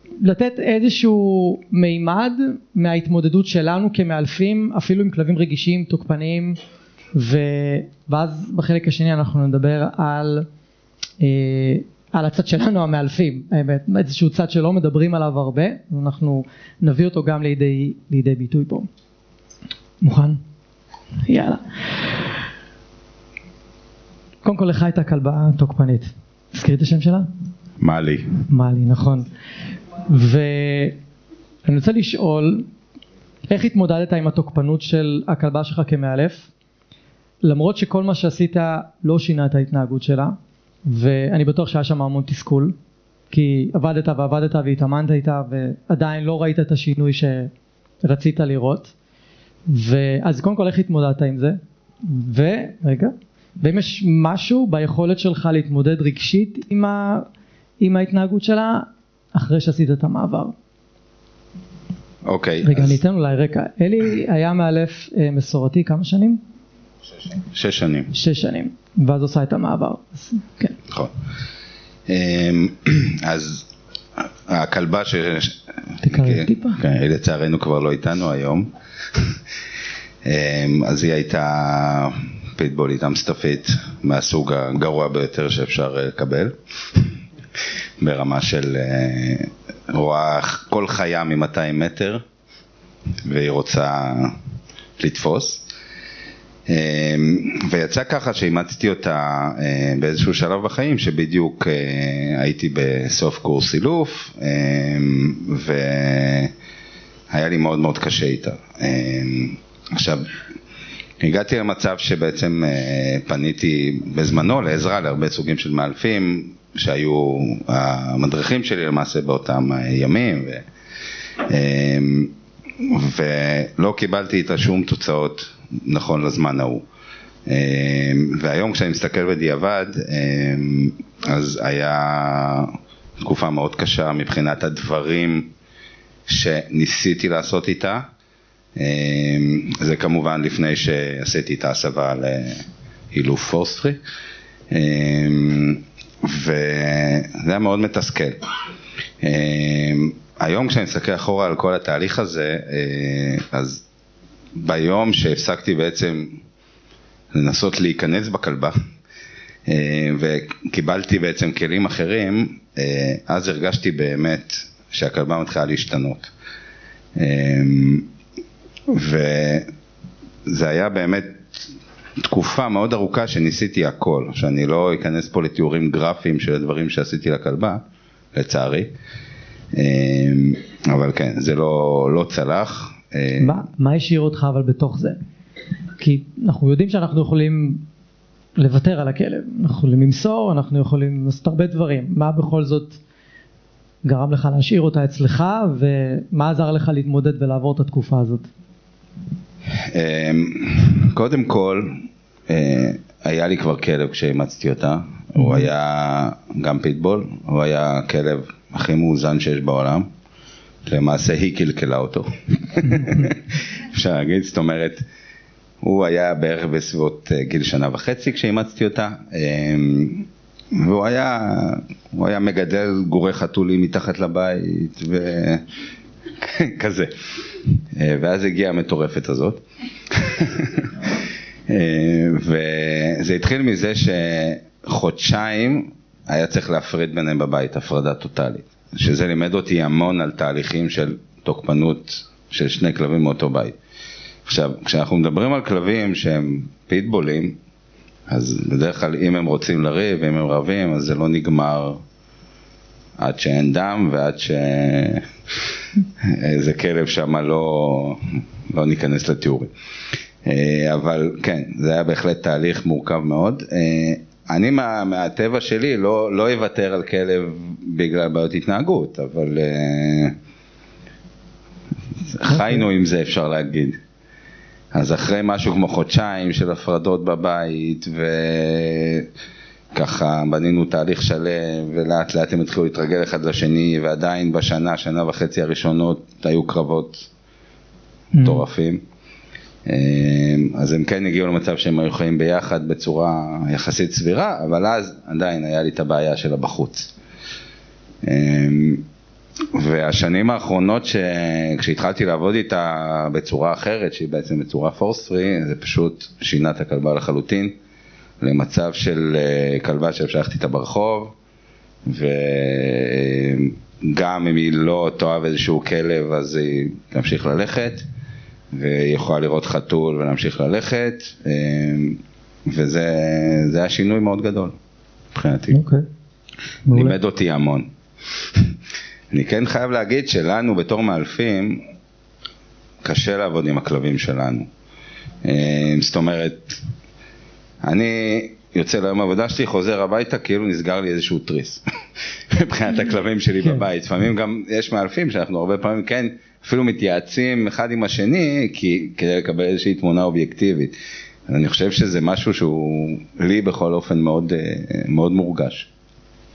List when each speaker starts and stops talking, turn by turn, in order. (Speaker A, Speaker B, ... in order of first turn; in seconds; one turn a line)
Speaker A: 0.2-6.6
Speaker A: 7.2-10.5
Speaker A: 11.2-18.9
Speaker A: 20.0-20.4
Speaker A: 21.3-22.2
Speaker A: 24.4-27.3
Speaker B: 27.8-28.4
Speaker A: 28.5-29.3
Speaker A: 30.1-31.0
Speaker A: 31.7-32.7
Speaker A: 33.5-36.5
Speaker A: 37.4-42.8
Speaker A: 43.3-47.5
Speaker A: 48.0-48.9
Speaker A: 49.7-57.3
Speaker A: 57.8-60.5
Speaker B: 62.2-63.0
Speaker A: 62.6-66.4
Speaker B: 67.5-68.1
Speaker A: 68.1-70.8
Speaker B: 70.9-71.1
Speaker B: 72.1-73.7
Speaker B: 74.2-79.4
Speaker A: 76.0-76.8
Speaker B: 80.2-87.1
Speaker B: 88.0-92.2
Speaker B: 93.2-94.4
Speaker B: 95.0-95.6
Speaker B: 96.7-106.5
Speaker B: 107.3-110.4
Speaker B: 111.2-120.7
Speaker B: 121.5-126.8
Speaker B: 127.5-135.5
Speaker B: 136.3-138.1
Speaker B: 138.8-144.0
Speaker B: 144.7-148.4
Speaker B: 149.2-153.8
Speaker B: 154.6-156.4
Speaker B: 157.3-158.8
Speaker B: 159.7-166.3
Speaker B: 167.2-168.1
Speaker B: 168.9-169.7
Speaker B: 170.5-171.4
Speaker B: 172.2-177.8
Speaker B: 178.3-178.9
Speaker B: 179.7-183.6
Speaker A: 183.4-185.2
Speaker A: 186.0-187.8
Speaker A: 188.6-193.0
Speaker A: 194.1-198.5
Speaker B: 199.8-210.1
Speaker A: 205.4-205.7
Speaker B: 210.9-215.0
Speaker B: 215.8-225.7
Speaker B: 226.4-227.1
Speaker B: 227.9-243.8
Speaker B: 244.5-247.6
Speaker B: 248.3-252.0
Speaker B: 253.2-255.3
Speaker B: 256.2-259.7
Speaker B: 260.4-270.4
Speaker B: 272.3-274.0
Speaker A: 272.4-272.9
Speaker B: 274.9-279.3
Speaker B: 279.9-287.3
Speaker A: 288.4-288.6
Speaker B: 288.4-289.0
Speaker B: 289.9-297.1
Speaker B: 298.2-299.1
Speaker B: 299.8-307.8
Speaker B: 308.4-311.3
Speaker B: 312.1-318.1
Speaker B: 318.7-324.8
Speaker B: 325.3-325.8
Speaker A: 325.7-326.1
Speaker A: 326.9-327.1
Speaker B: 326.9-327.9
Speaker B: 329.3-331.8
Speaker B: 333.0-334.7
Speaker B: 335.4-336.8
Speaker B: 337.8-341.8
Speaker B: 342.5-350.9
Speaker B: 351.5-355.9